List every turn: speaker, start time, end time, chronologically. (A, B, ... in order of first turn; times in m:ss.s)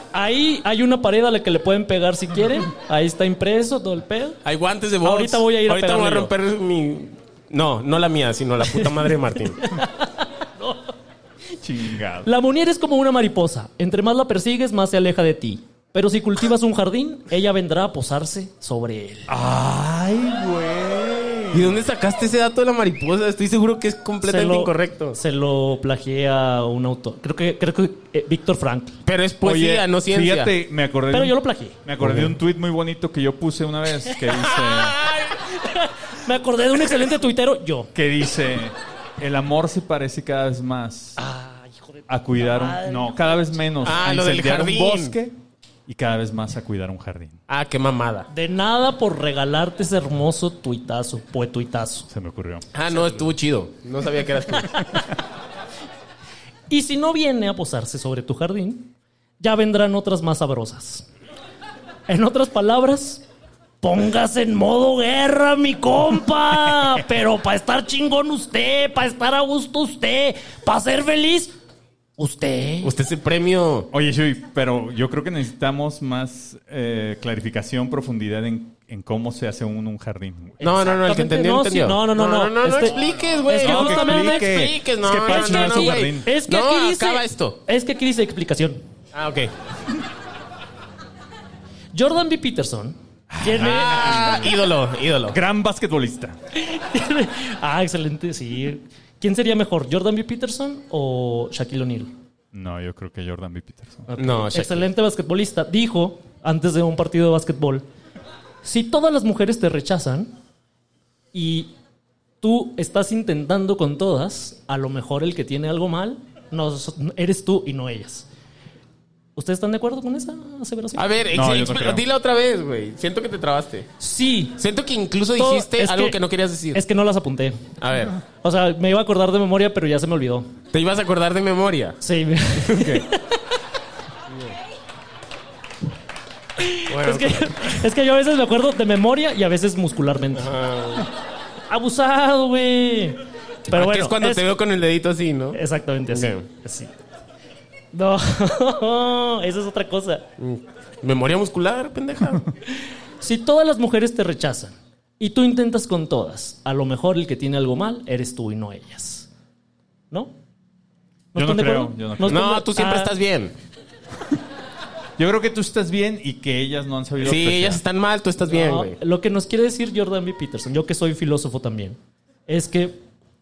0:00.1-0:04.4 A
0:04.4-0:09.6 B
0:05.0-0:06.3 A
0:09.6-0:10.9 A
0:11.6-0:12.3 C
0:12.2-0:19.3 A
0:19.3-0:21.8 C
0:21.5-0:25.2 B
0:24.2-0:29.0 A
0:29.0-0:30.5 B
0:29.4-0:35.0 C
0:31.1-0:31.8 A
0:32.0-0:32.4 B
0:34.3-0:35.4 B
0:35.5-0:37.9 A
0:38.0-0:41.2 C
0:41.2-0:43.6 A
0:42.1-0:45.4 C
0:43.8-0:45.2 B
0:45.9-0:47.4 C
0:47.5-0:48.3 B
0:48.3-0:52.1 A
0:52.1-0:52.7 C
0:52.7-0:54.9 B
0:56.7-1:01.1 A
1:02.1-1:03.2 A
1:03.8-1:11.5 A
1:12.2-1:12.9 A
1:12.8-1:13.9 B
1:13.9-1:20.6 C
1:20.6-1:24.6 A
1:20.6-1:27.6 B
1:23.5-1:26.3 C
1:25.3-1:28.8 A
1:29.1-1:29.5 B
1:31.9-1:34.4 A
1:33.3-1:34.6 C
1:33.6-1:35.4 B
1:35.3-1:36.4 C
1:36.6-1:42.1 A
1:42.5-1:44.5 C
1:44.2-1:47.9 A
1:44.2-1:44.9 B
1:48.6-1:50.3 A
1:51.3-1:51.7 A
1:52.4-1:58.3 A
1:59.4-2:01.1 A
2:01.0-2:03.9 B
2:01.3-2:02.0 C
2:04.0-2:04.6 A
2:04.6-2:06.8 B
2:05.4-2:06.2 A
2:06.7-2:07.6 A
2:07.8-2:08.2 B
2:08.4-2:10.5 A
2:10.7-2:12.0 B
2:12.0-2:13.4 A
2:12.6-2:13.1 B
2:14.3-2:14.6 B
2:16.6-2:20.5 A
2:16.9-2:17.8 B
2:20.4-2:21.1 B
2:21.7-2:24.4 A
2:23.7-2:26.4 B
2:25.5-2:26.9 A
2:27.9-2:30.2 A
2:30.4-2:32.5 B
2:33.2-2:39.3 A
2:41.3-2:43.1 A
2:41.4-2:42.4 C
2:42.3-2:43.6 B
2:45.2-2:47.8 C
2:47.2-2:49.0 B
2:48.5-2:53.0 A